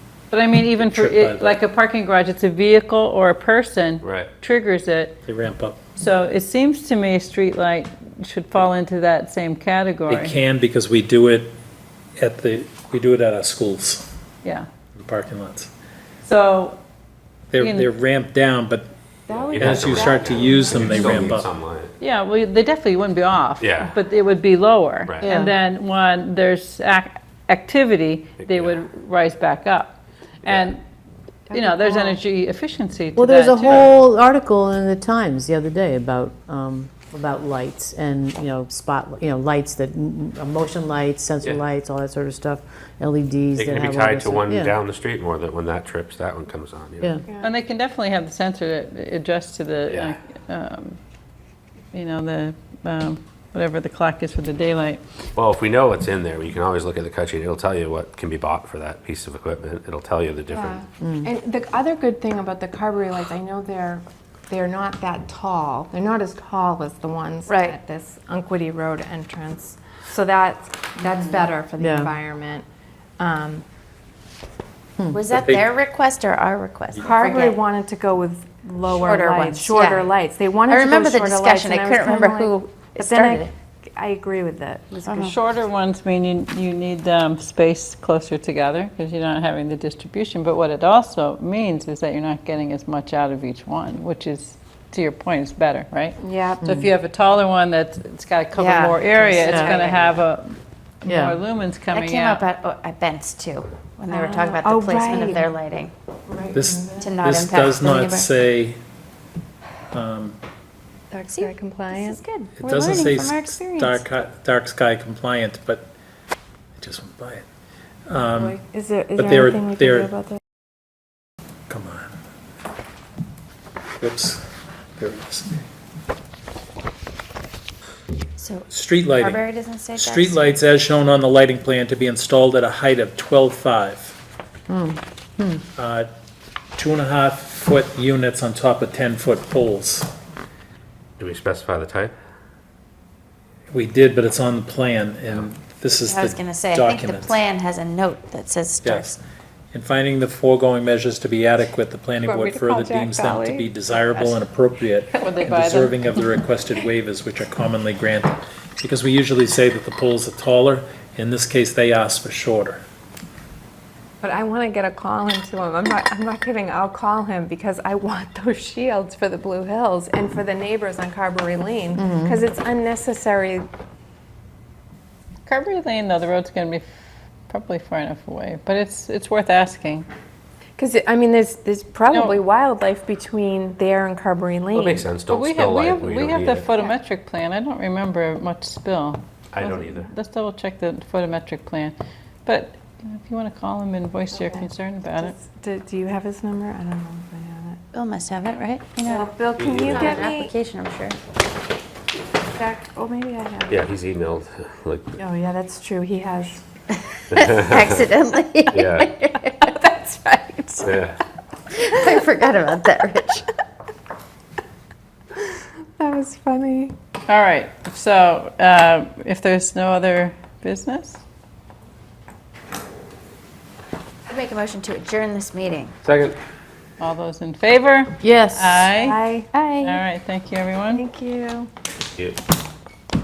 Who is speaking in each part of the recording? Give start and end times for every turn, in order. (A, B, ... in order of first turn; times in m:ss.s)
0:00.3-0:05.2 A
0:00.8-0:01.6 B
0:04.0-0:04.3 C
0:05.2-0:05.8 B
0:06.0-0:10.4 A
0:10.1-0:11.5 B
0:12.2-0:14.1 B
0:14.9-0:15.7 B
0:16.2-0:16.8 A
0:17.5-0:18.9 B
0:17.6-0:17.9 A
0:19.3-0:20.9 D
0:19.3-0:21.9 C
0:19.6-0:21.5 B
0:22.0-0:30.8 A
0:23.6-0:24.0 C
0:25.0-0:25.4 C
0:25.2-0:25.5 E
0:28.4-0:28.8 C
0:30.4-0:30.7 C
0:31.5-0:32.2 D
0:31.5-0:33.9 A
0:33.2-0:44.7 E
0:43.6-0:47.2 C
0:47.4-0:51.0 A
0:49.9-0:50.2 C
0:51.9-0:55.0 A
0:55.4-1:00.8 C
1:00.5-1:12.6 D
1:01.0-1:01.3 E
1:07.5-1:07.8 F
1:11.8-1:12.1 E
1:13.2-1:13.6 D
1:15.1-1:17.6 F
1:15.3-1:15.7 B
1:17.0-1:25.3 D
1:18.9-1:20.1 F
1:20.6-1:23.5 F
1:25.0-1:25.3 F
1:25.2-1:42.4 A
1:36.2-1:36.6 D
1:36.6-1:36.9 E
1:38.5-1:40.1 F
1:39.4-1:39.8 E
1:41.0-1:41.4 E
1:41.9-1:45.9 F
1:44.1-1:45.5 D
1:46.3-1:47.1 D
1:46.5-1:48.8 B
1:47.0-1:48.3 F
1:49.9-1:50.4 B
1:51.1-1:52.2 D
1:51.3-1:54.0 F
1:52.6-1:55.9 B
1:56.8-1:57.4 B
1:58.1-1:58.6 B
1:58.2-2:00.4 D
1:59.1-2:00.1 B
2:01.7-2:02.1 B
2:04.0-2:04.4 B
2:05.0-2:05.5 B
2:08.4-2:10.5 F
2:08.7-2:14.2 B
2:14.7-2:15.6 E
2:15.8-2:16.1 B
2:16.8-2:20.1 B
2:21.2-2:22.1 C
2:23.7-2:27.4 B
2:26.0-2:29.2 F
2:28.8-2:29.1 B
2:29.7-2:42.8 B
2:32.2-2:33.7 D
2:35.1-2:36.0 A
2:44.2-2:53.6 D
2:52.0-2:52.4 E
2:55.4-2:56.9 A
2:57.5-3:00.1 A
3:00.8-3:05.1 D
3:02.1-3:02.4 A
3:04.7-3:06.6 C
3:05.3-3:15.4 A
3:09.5-3:10.1 C
3:14.3-3:17.8 D
3:17.9-3:21.2 F
3:19.0-3:20.5 D
3:19.6-3:20.2 C
3:22.5-3:23.8 D
3:23.7-3:25.1 C
3:25.2-3:26.6 D
3:27.3-3:28.0 C
3:27.3-3:29.7 F
3:28.7-3:29.1 C
3:29.5-3:31.0 D
3:30.8-3:31.2 C
3:31.7-3:33.5 F
3:36.0-3:36.9 D
3:37.3-3:41.2 A
3:44.3-3:45.9 F
3:46.0-3:46.4 C
3:47.0-3:49.2 A
3:48.2-3:48.9 E
3:48.9-3:49.5 D
3:49.5-3:50.0 F
3:49.8-3:51.0 A
3:50.9-3:51.7 D